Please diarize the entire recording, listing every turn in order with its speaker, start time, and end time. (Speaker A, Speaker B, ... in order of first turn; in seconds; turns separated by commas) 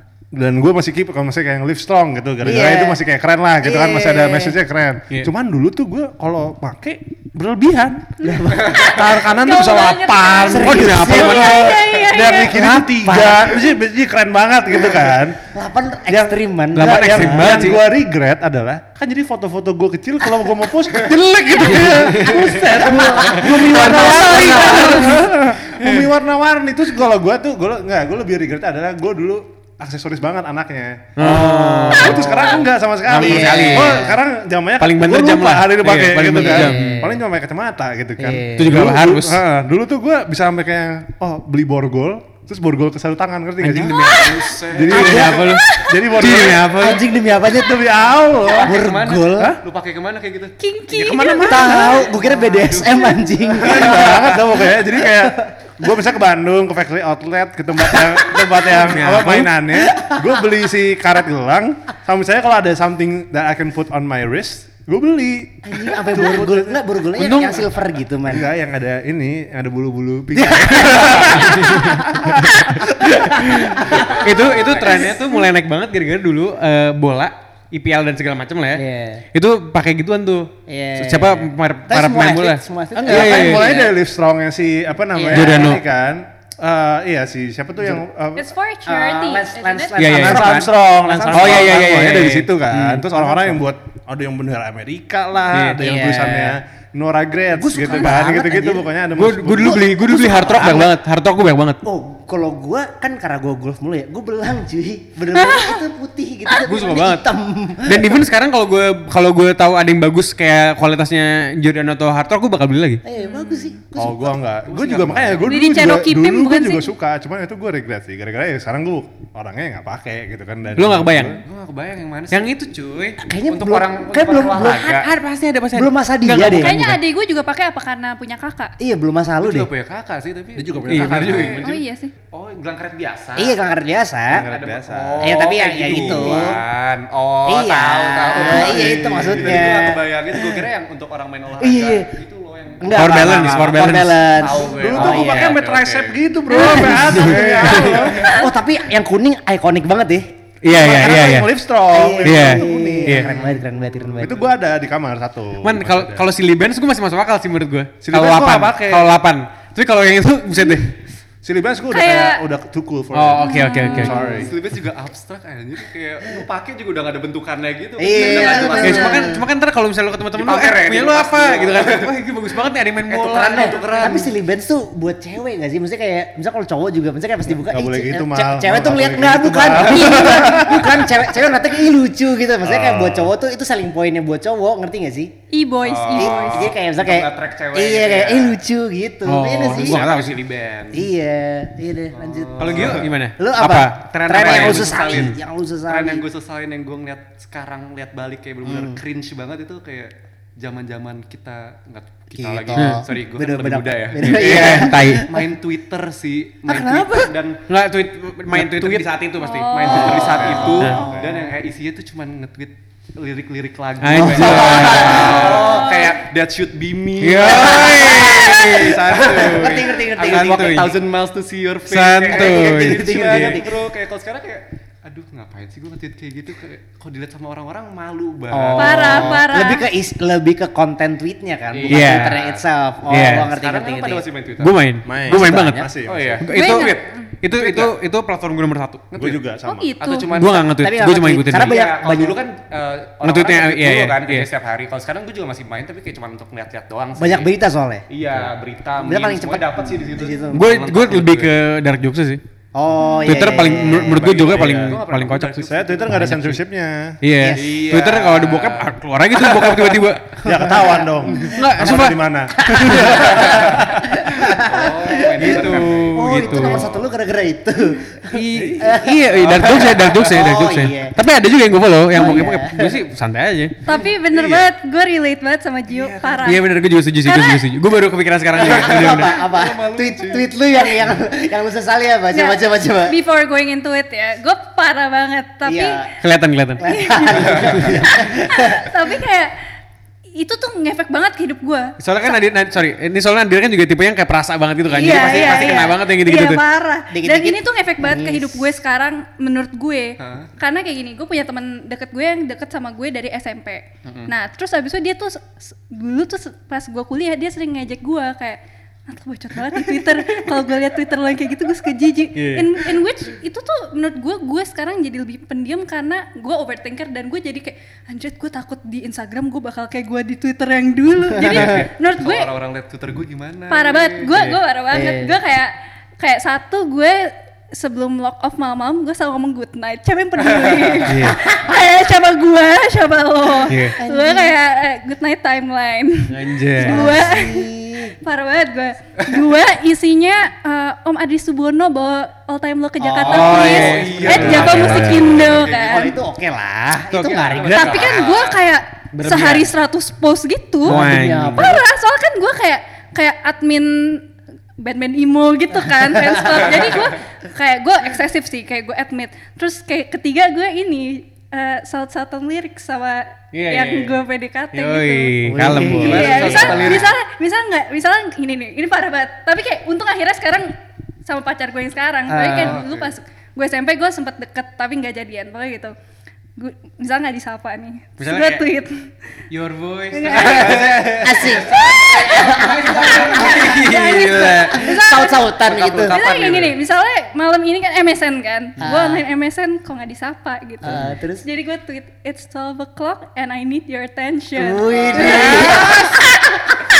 Speaker A: 0.3-15.4, Speaker B: 2.4-3.0, Speaker B: 3.6-4.6, Speaker B: 8.2-9.1, Speaker C: 8.2-12.5, Speaker B: 10.4-11.7, Speaker D: 10.6-11.8, Speaker D: 12.5-12.9, Speaker B: 12.6-13.8, Speaker B: 14.7-17.8, Speaker A: 16.1-46.8, Speaker D: 16.7-17.8, Speaker D: 21.6-26.1, Speaker B: 22.2-25.2, Speaker D: 31.2-32.5, Speaker B: 31.2-34.2, Speaker D: 33.1-34.1, Speaker D: 34.8-37.0, Speaker B: 36.3-37.2, Speaker B: 38.2-38.8, Speaker D: 38.5-39.4, Speaker D: 43.6-47.0, Speaker C: 43.9-44.5, Speaker E: 44.0-45.4, Speaker B: 45.0-45.4, Speaker C: 45.5-46.1, Speaker B: 46.7-48.0, Speaker A: 47.5-48.8, Speaker E: 48.4-50.5, Speaker B: 48.5-49.6, Speaker A: 49.3-49.6, Speaker C: 50.6-52.1, Speaker A: 50.9-51.9, Speaker B: 51.4-55.5, Speaker E: 51.8-53.2, Speaker A: 53.6-66.8, Speaker D: 58.7-59.5, Speaker B: 59.7-60.5, Speaker B: 65.6-68.5, Speaker D: 67.2-67.7, Speaker A: 68.2-72.7, Speaker B: 70.3-75.2, Speaker D: 71.4-72.0, Speaker D: 73.5-83.8, Speaker E: 74.7-75.0, Speaker B: 78.7-79.2, Speaker B: 80.7-83.9, Speaker A: 83.0-88.5, Speaker B: 85.1-85.8, Speaker D: 85.3-85.8, Speaker C: 88.3-90.0, Speaker B: 88.8-91.9, Speaker D: 90.0-90.7, Speaker A: 90.1-100.2, Speaker D: 91.3-93.1, Speaker B: 93.2-93.5, Speaker D: 95.5-95.8, Speaker B: 95.8-96.6, Speaker B: 97.5-98.9, Speaker D: 99.1-101.8, Speaker B: 99.8-100.9, Speaker B: 101.8-108.2, Speaker C: 105.3-105.8, Speaker D: 106.6-107.3, Speaker D: 107.8-113.0, Speaker B: 113.0-114.6, Speaker C: 113.2-113.7, Speaker A: 114.0-121.4, Speaker E: 114.7-115.6, Speaker C: 115.4-116.9, Speaker D: 120.7-121.4, Speaker E: 121.4-122.5, Speaker D: 122.3-123.2, Speaker B: 123.2-125.0, Speaker E: 123.5-125.1, Speaker D: 124.7-127.0, Speaker B: 125.7-127.0, Speaker C: 126.5-128.8, Speaker B: 128.8-129.7, Speaker E: 129.4-131.7, Speaker A: 130.6-131.6, Speaker D: 130.9-131.8, Speaker C: 131.6-132.1, Speaker E: 132.3-133.6, Speaker B: 133.3-134.5, Speaker A: 134.3-135.4, Speaker E: 134.4-146.2, Speaker B: 135.2-136.6, Speaker A: 136.0-136.5, Speaker B: 137.4-140.6, Speaker A: 138.4-139.6, Speaker B: 141.6-142.2, Speaker B: 142.8-145.6, Speaker D: 142.9-144.4, Speaker A: 144.7-148.3, Speaker D: 146.5-148.1, Speaker C: 146.6-146.9, Speaker E: 147.3-148.4, Speaker B: 148.2-150.3, Speaker D: 150.6-151.5, Speaker A: 150.7-153.5, Speaker B: 151.9-154.5, Speaker D: 152.2-153.3, Speaker A: 154.2-156.2, Speaker D: 155.6-161.0, Speaker A: 158.0-159.1, Speaker A: 161.4-164.6, Speaker C: 161.9-162.4, Speaker D: 163.1-164.3, Speaker C: 163.4-164.3, Speaker E: 164.1-169.4, Speaker B: 168.0-169.4, Speaker D: 168.7-173.9, Speaker E: 170.3-172.1, Speaker E: 173.1-174.3, Speaker B: 173.5-185.3, Speaker A: 177.5-181.2, Speaker A: 182.6-183.3, Speaker C: 185.5-186.7, Speaker E: 185.8-188.6, Speaker B: 186.2-190.0, Speaker D: 189.2-190.4, Speaker E: 189.6-191.1, Speaker B: 190.9-196.2, Speaker E: 192.1-193.1, Speaker D: 192.6-195.4, Speaker E: 194.3-207.6, Speaker B: 198.6-199.0, Speaker B: 202.3-205.5, Speaker D: 202.8-203.0, Speaker D: 204.2-205.3, Speaker B: 206.7-207.3, Speaker D: 207.7-211.0, Speaker E: 208.5-229.4, Speaker C: 209.4-210.1, Speaker A: 209.9-211.3, Speaker B: 210.7-211.5, Speaker D: 214.0-215.7, Speaker B: 214.1-216.1, Speaker C: 215.5-216.1, Speaker D: 217.2-221.0, Speaker B: 217.5-220.8, Speaker D: 221.9-223.6, Speaker B: 222.3-223.8, Speaker B: 228.5-234.2, Speaker C: 228.8-229.9, Speaker E: 231.7-234.8, Speaker D: 231.9-232.4, Speaker D: 233.1-233.5, Speaker D: 234.6-235.9, Speaker A: 235.0-236.4, Speaker B: 235.3-235.9, Speaker E: 236.0-237.9, Speaker D: 236.4-239.1, Speaker C: 236.5-237.3, Speaker E: 239.1-239.4, Speaker A: 239.1-239.9, Speaker C: 239.6-240.3, Speaker E: 240.0-240.8, Speaker D: 240.3-241.8, Speaker B: 240.8-242.4, Speaker E: 241.5-247.5, Speaker D: 243.2-244.5, Speaker B: 247.2-248.0, Speaker E: 248.1-251.5, Speaker B: 249.0-250.6, Speaker D: 250.5-252.4, Speaker B: 252.7-254.3, Speaker C: 253.0-253.4, Speaker D: 253.2-256.6, Speaker A: 253.9-257.2, Speaker E: 254.2-256.2, Speaker D: 257.2-260.4, Speaker B: 257.4-257.9, Speaker E: 257.5-260.0, Speaker B: 260.4-261.6, Speaker A: 260.4-264.6, Speaker D: 261.5-263.2, Speaker B: 262.6-271.1, Speaker E: 264.5-267.1, Speaker D: 265.4-266.9, Speaker D: 268.3-273.8, Speaker E: 269.4-270.1, Speaker B: 272.1-273.0, Speaker C: 273.8-277.7, Speaker E: 273.9-274.7, Speaker E: 275.9-276.5, Speaker D: 276.4-279.4, Speaker B: 278.5-283.1, Speaker E: 278.5-280.5, Speaker C: 282.3-286.0, Speaker B: 285.6-286.1, Speaker D: 286.2-286.8, Speaker B: 286.8-288.9, Speaker C: 286.9-289.5, Speaker E: 287.3-287.9, Speaker C: 290.4-292.4, Speaker D: 292.0-296.6, Speaker B: 294.9-295.9, Speaker C: 294.9-322.5, Speaker B: 297.1-298.8, Speaker E: 300.2-300.5, Speaker E: 304.0-304.3, Speaker D: 312.3-312.8, Speaker B: 321.5-321.8, Speaker E: 321.5-324.5, Speaker C: 323.7-346.1, Speaker B: 324.9-325.4, Speaker E: 330.4-331.2, Speaker D: 331.1-331.4, Speaker D: 333.7-333.9, Speaker B: 334.0-334.6, Speaker D: 336.3-337.1, Speaker B: 336.8-338.1, Speaker B: 343.0-348.3, Speaker E: 343.3-346.0, Speaker D: 343.3-345.2, Speaker A: 344.6-345.4, Speaker D: 347.1-347.6, Speaker E: 347.3-348.6, Speaker C: 347.7-351.0, Speaker B: 349.1-349.7, Speaker B: 350.8-351.8, Speaker D: 350.9-351.7, Speaker C: 351.5-354.3, Speaker C: 354.8-365.4, Speaker B: 355.9-356.8, Speaker D: 363.5-364.2, Speaker D: 364.7-366.7, Speaker B: 365.4-367.0, Speaker E: 365.8-367.1, Speaker C: 366.0-370.7, Speaker C: 371.2-375.9, Speaker B: 372.3-372.8, Speaker E: 372.5-373.1, Speaker C: 376.6-379.1, Speaker D: 378.2-378.6, Speaker D: 379.5-384.9, Speaker C: 380.1-380.9, Speaker E: 380.4-381.6, Speaker B: 380.7-386.1, Speaker C: 381.7-385.5, Speaker E: 385.6-386.8, Speaker C: 386.0-396.8, Speaker B: 388.8-389.2, Speaker B: 390.8-391.4, Speaker B: 394.5-396.6, Speaker E: 395.0-395.7, Speaker D: 395.2-396.0